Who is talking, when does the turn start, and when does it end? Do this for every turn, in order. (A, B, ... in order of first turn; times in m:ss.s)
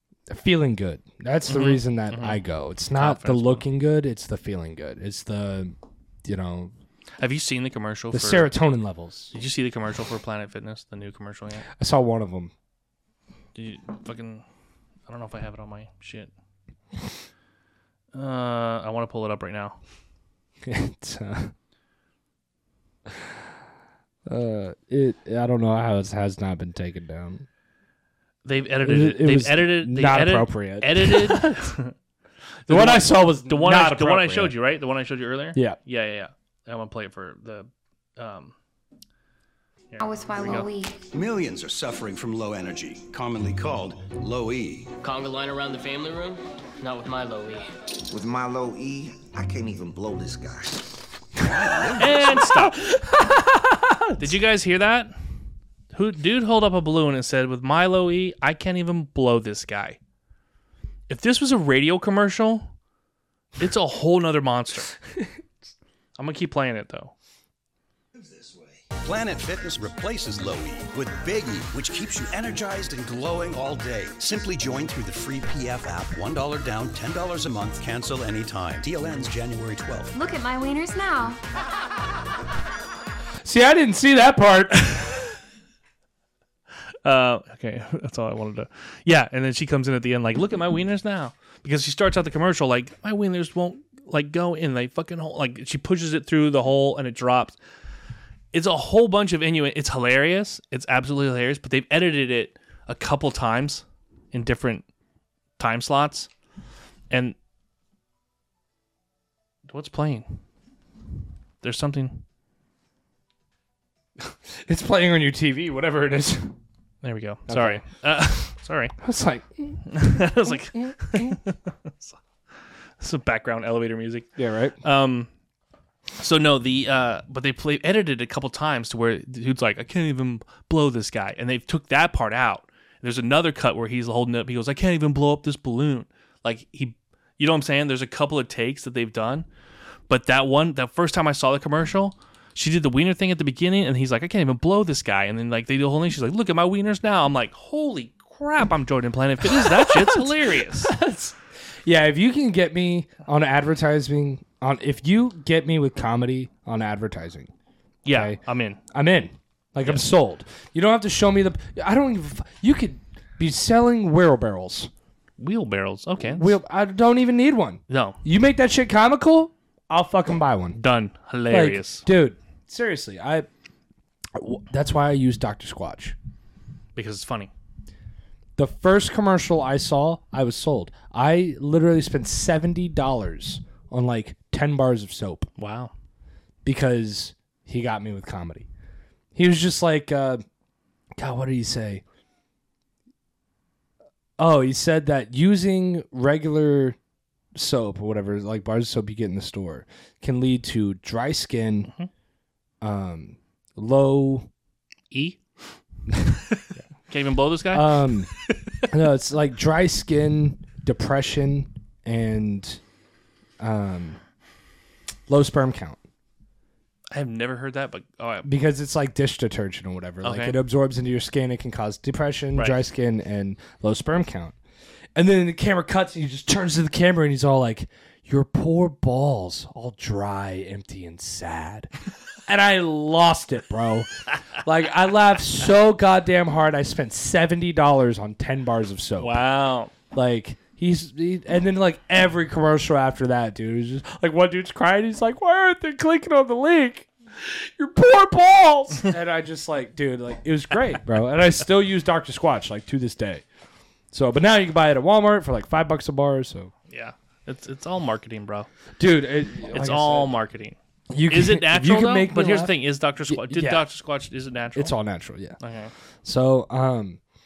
0:00.3-0:06.7 A
0:01.5-0:02.4 B
0:02.9-0:03.6 B
0:07.2-0:08.5 B
0:08.1-0:09.3 A
0:09.3-0:11.7 B
0:11.7-0:12.5 A
0:13.5-0:14.4 B
0:15.1-0:16.3 B
0:18.1-0:19.8 B
0:20.6-0:21.5 A
0:24.2-0:27.5 A
0:28.4-0:31.9 B
0:28.8-0:31.6 A
0:32.6-0:38.5 B
0:32.7-0:34.5 A
0:39.9-0:40.7 B
0:40.0-0:41.0 C
0:41.1-0:44.9 D
0:45.0-0:47.6 E
0:48.1-0:50.9 F
0:51.4-0:52.3 D
0:52.0-0:52.8 B
0:52.5-0:54.2 A
0:54.2-0:55.1 B
0:55.9-1:00.0 B
1:01.1-1:02.7 B
1:03.6-1:04.9 B
1:06.2-1:07.1 B
1:09.0-1:20.1 D
1:20.1-1:21.4 C
1:23.4-1:25.3 A
1:27.0-1:37.6 B
1:38.5-1:44.8 B
1:45.6-1:46.3 B
1:47.1-1:47.4 B
1:49.6-1:50.4 B
1:51.6-1:52.2 B
1:54.2-1:56.5 A
1:57.0-1:58.9 B
1:57.5-1:57.8 A
1:59.0-2:01.4 A
1:59.9-2:02.2 B
2:03.0-2:04.3 B
2:04.4-2:04.8 A
2:04.8-2:05.3 B
2:06.2-2:19.5 B
2:20.1-2:30.9 B
2:29.5-2:37.5 A
2:38.0-2:38.8 B
2:38.1-2:44.9 A
2:45.4-2:46.6 B
2:46.2-2:50.8 A
2:47.9-2:48.2 B
2:50.7-2:52.0 B
2:51.5-2:53.5 A
2:54.3-2:56.2 A
2:56.9-2:57.5 B
2:58.6-3:05.5 A
3:05.6-3:05.9 B
3:06.6-3:08.7 A
3:09.3-3:10.4 A
3:11.2-3:12.0 A
3:14.4-3:17.0 A
3:17.5-3:21.9 A
3:22.8-3:24.5 A
3:25.1-3:25.6 B
3:26.1-3:26.4 A
3:27.1-3:28.9 B
3:27.7-3:28.3 A
3:28.9-3:32.8 A
3:33.6-3:34.2 A
3:35.3-3:36.0 A
3:37.1-3:38.5 B
3:38.4-3:44.5 A
3:40.2-3:40.6 B
3:45.1-3:51.9 A
3:52.4-3:59.4 A
3:59.2-3:59.9 B
4:00.1-4:13.4 A
4:14.1-4:16.7 A
4:16.9-4:18.7 B
4:19.0-4:20.3 A
4:19.7-4:20.8 B
4:21.1-4:22.8 A
4:21.3-4:25.0 B
4:23.3-4:23.8 A
4:24.7-4:25.6 A
4:25.6-4:25.9 B
4:26.2-4:27.2 A